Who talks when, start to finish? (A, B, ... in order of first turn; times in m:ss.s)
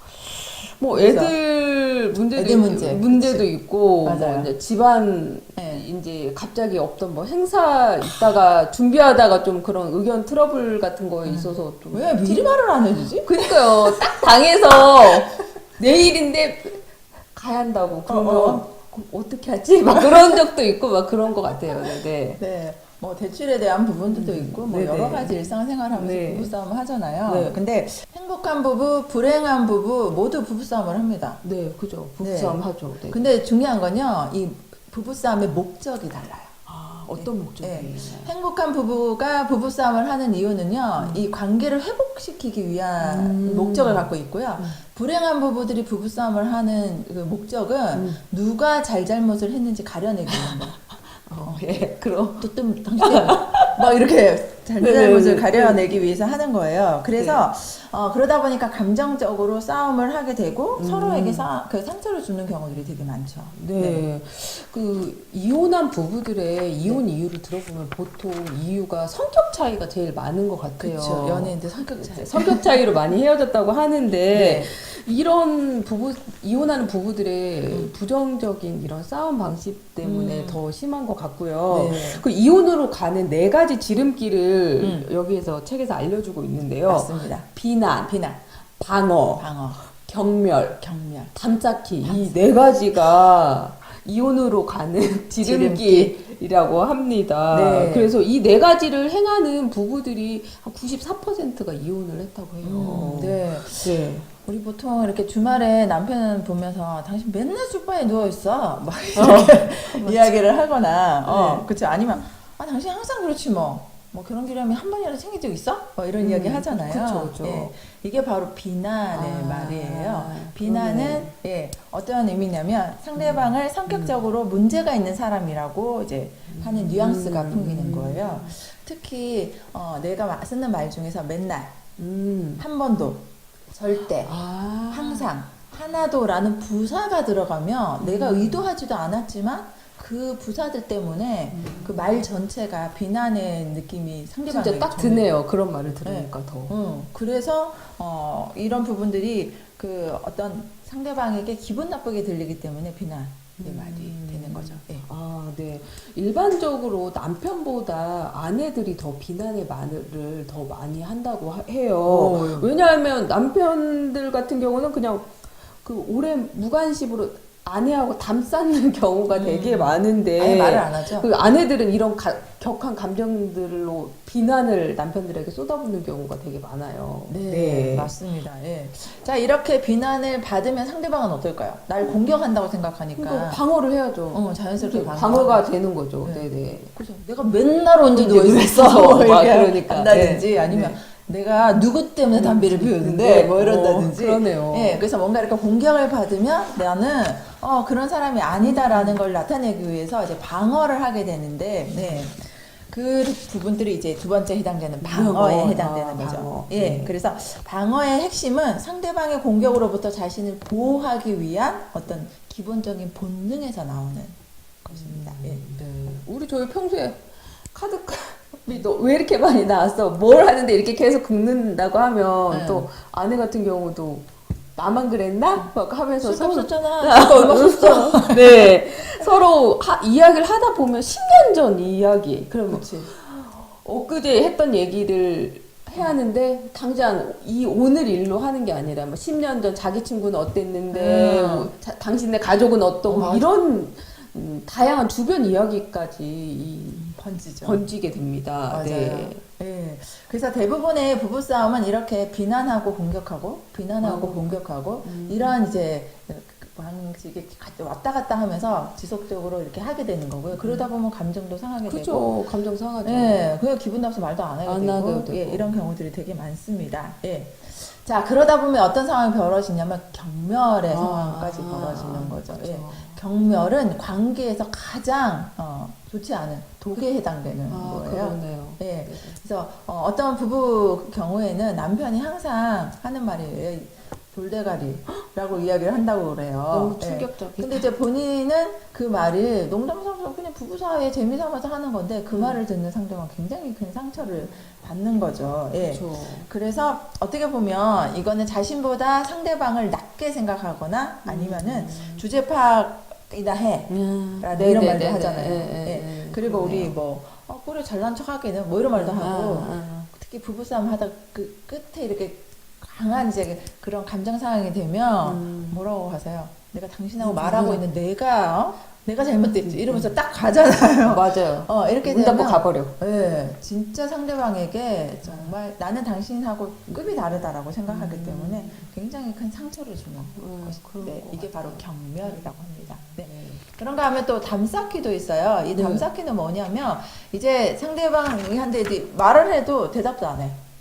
0:00.1-0:12.6 A
0:00.9-0:01.4 B
0:02.4-0:03.5 B
0:04.0-0:04.5 B
0:05.6-0:05.9 B
0:11.2-0:14.2 B
0:13.2-0:16.8 A
0:15.0-0:15.4 B
0:17.3-0:22.4 A
0:18.1-0:18.7 B
0:20.0-0:20.4 B
0:21.8-0:31.4 B
0:24.1-0:26.5 A
0:27.3-0:27.6 A
0:31.4-0:33.3 A
0:32.2-0:36.6 B
0:36.7-0:38.3 A
0:37.1-0:50.8 B
0:41.0-0:41.2 A
0:43.0-0:44.8 A
0:47.9-0:48.2 A
0:50.3-0:53.9 A
0:52.4-1:04.0 B
0:54.8-0:56.0 A
0:57.2-0:57.5 A
1:00.8-1:01.5 A
1:03.5-1:30.8 A
1:10.8-1:12.8 B
1:14.3-1:14.7 B
1:20.0-1:20.6 B
1:21.7-1:22.2 B
1:24.8-1:25.1 B
1:26.9-1:27.5 B
1:29.4-1:29.8 B
1:30.8-1:31.3 B
1:31.3-1:44.3 A
1:32.0-1:32.5 B
1:35.4-1:36.2 B
1:37.5-1:38.1 B
1:42.6-2:11.8 B
1:49.2-1:50.4 A
1:51.2-1:51.7 A
1:56.2-1:57.7 A
1:59.1-2:01.3 A
2:03.2-2:04.2 A
2:06.5-2:08.6 A
2:12.0-2:12.6 A
2:12.6-2:14.4 B
2:14.1-2:15.3 A
2:14.9-2:25.3 B
2:18.0-2:18.6 A
2:21.5-2:22.0 A
2:24.5-2:26.8 A
2:26.0-2:35.1 B
2:33.6-2:45.3 A
2:42.0-2:42.7 B
2:45.8-2:58.1 A
2:49.3-2:51.3 B
2:57.3-3:03.6 B
3:03.2-3:06.9 A
3:04.3-3:05.7 B
3:06.2-3:35.6 B
3:08.1-3:11.0 A
3:12.3-3:15.0 A
3:18.6-3:19.2 A
3:25.0-3:27.2 A
3:34.9-4:07.1 A
3:42.5-3:42.9 B
3:45.6-3:48.7 B
3:52.7-3:53.1 B
4:00.9-4:01.7 B
4:03.1-4:03.5 B
4:06.9-4:07.9 B
4:07.6-4:09.4 A
4:08.7-4:22.4 B
4:14.0-4:15.6 A
4:20.5-4:20.9 A
4:21.8-4:23.5 A
4:23.0-5:40.6 B
4:24.6-4:25.7 A
4:30.9-4:33.3 A
4:37.7-4:39.4 A
4:46.7-4:47.9 A
4:52.3-4:52.6 A
4:55.8-4:56.5 A
5:01.2-5:02.2 A
5:03.9-5:06.9 A
5:08.9-5:10.1 A
5:15.2-5:15.8 A
5:17.2-5:17.9 A
5:19.4-5:20.1 A
5:21.0-5:22.9 A
5:25.2-5:25.6 A
5:27.9-5:28.9 A
5:30.4-5:33.6 A
5:35.7-5:36.1 A